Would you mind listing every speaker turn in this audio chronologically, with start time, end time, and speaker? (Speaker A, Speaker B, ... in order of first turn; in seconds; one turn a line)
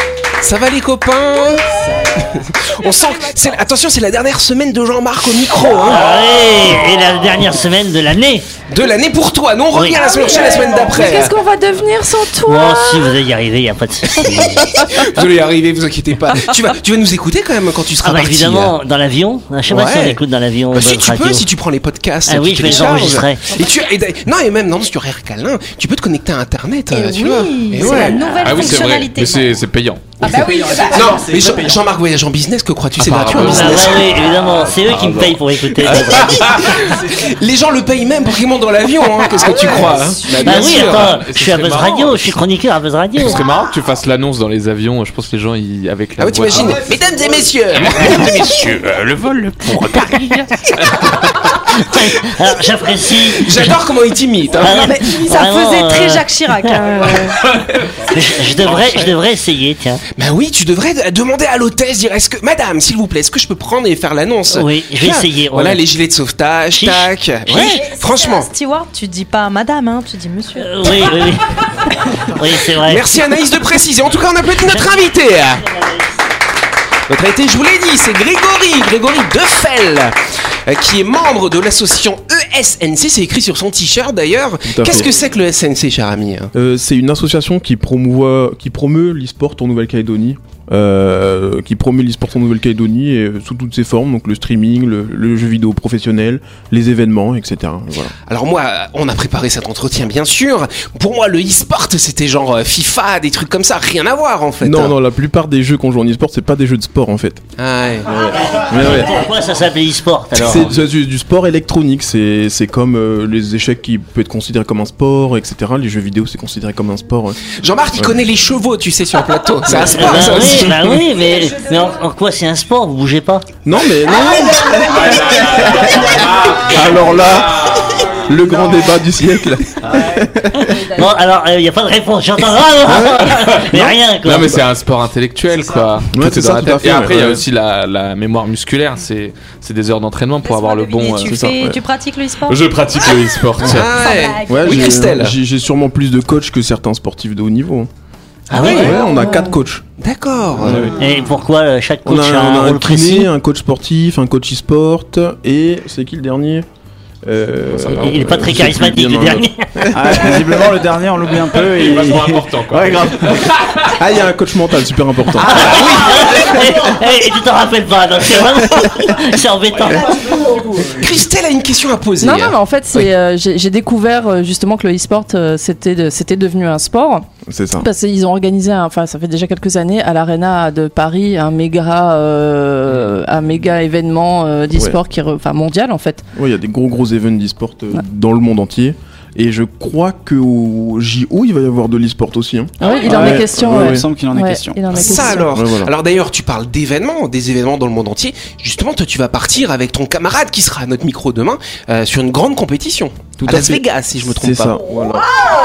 Speaker A: 0.4-6.1
Speaker B: 5.8-8.5
Speaker A: 8.7-11.3
Speaker B: 9.7-10.1
Speaker C: 10.0-11.2
Speaker D: 10.1-13.1
Speaker B: 12.4-14.8
Speaker A: 14.2-18.8
Speaker B: 18.0-21.5
Speaker A: 19.7-20.2
Speaker A: 20.7-28.4
Speaker B: 22.3-23.6
Speaker C: 26.9-29.6
Speaker E: 28.4-30.6
Speaker F: 30.2-31.8
Speaker C: 30.5-31.0
Speaker A: 30.9-34.1
Speaker E: 33.0-37.0
Speaker B: 33.3-36.8
Speaker A: 36.1-41.2
Speaker B: 40.4-43.4
Speaker E: 40.4-42.4
Speaker E: 43.2-46.9
Speaker A: 46.2-48.3
Speaker E: 47.7-51.0
Speaker C: 48.3-48.7
Speaker C: 49.2-50.5
Speaker B: 51.1-53.8
Speaker A: 53.1-55.2
Speaker B: 54.5-57.2
Speaker C: 54.6-57.5
Speaker E: 57.4-58.0
Speaker B: 58.1-60.0
Speaker E: 58.6-59.1
Speaker A: 60.2-68.5
Speaker B: 64.5-65.8
Speaker B: 66.7-67.6
Speaker C: 67.5-71.2
Speaker B: 70.5-73.5
Speaker A: 72.7-75.7
Speaker B: 74.4-76.1
Speaker A: 77.1-80.2
Speaker A: 80.7-86.5
Speaker G: 84.7-85.1
Speaker G: 86.5-98.1
Speaker A: 98.3-105.0
Speaker G: 104.6-107.4
Speaker A: 107.6-108.2
Speaker G: 108.1-109.2
Speaker B: 108.4-110.7
Speaker G: 110.3-117.4
Speaker A: 117.6-120.9
Speaker G: 119.7-121.0
Speaker B: 119.9-123.5
Speaker G: 123.6-130.8
Speaker E: 124.9-127.9
Speaker B: 130.8-134.6
Speaker G: 132.9-133.9
Speaker E: 133.4-141.5
Speaker G: 136.1-137.5
Speaker C: 140.4-144.9
Speaker G: 141.2-141.8
Speaker E: 142.5-144.1
Speaker A: 143.6-145.4
Speaker G: 144.5-147.9
Speaker B: 148.5-149.1
Speaker G: 148.5-149.8
Speaker C: 148.8-149.5
Speaker D: 148.9-149.6
Speaker A: 150.0-150.9
Speaker G: 150.6-151.1
Speaker B: 151.0-153.3
Speaker G: 152.0-156.7
Speaker G: 157.2-160.7
Speaker E: 157.7-158.7
Speaker B: 158.0-159.8
Speaker F: 159.9-163.5
Speaker E: 161.3-163.9
Speaker G: 163.8-165.8
Speaker B: 165.4-170.6
Speaker A: 165.5-166.6
Speaker G: 166.6-166.8
Speaker F: 170.2-170.8
Speaker A: 170.9-172.6
Speaker D: 172.2-186.2
Speaker G: 177.5-177.9
Speaker G: 186.3-194.1
Speaker D: 192.8-195.5
Speaker F: 193.1-195.1
Speaker A: 194.9-204.8
Speaker G: 195.0-195.9
Speaker G: 203.4-203.8
Speaker G: 204.4-205.4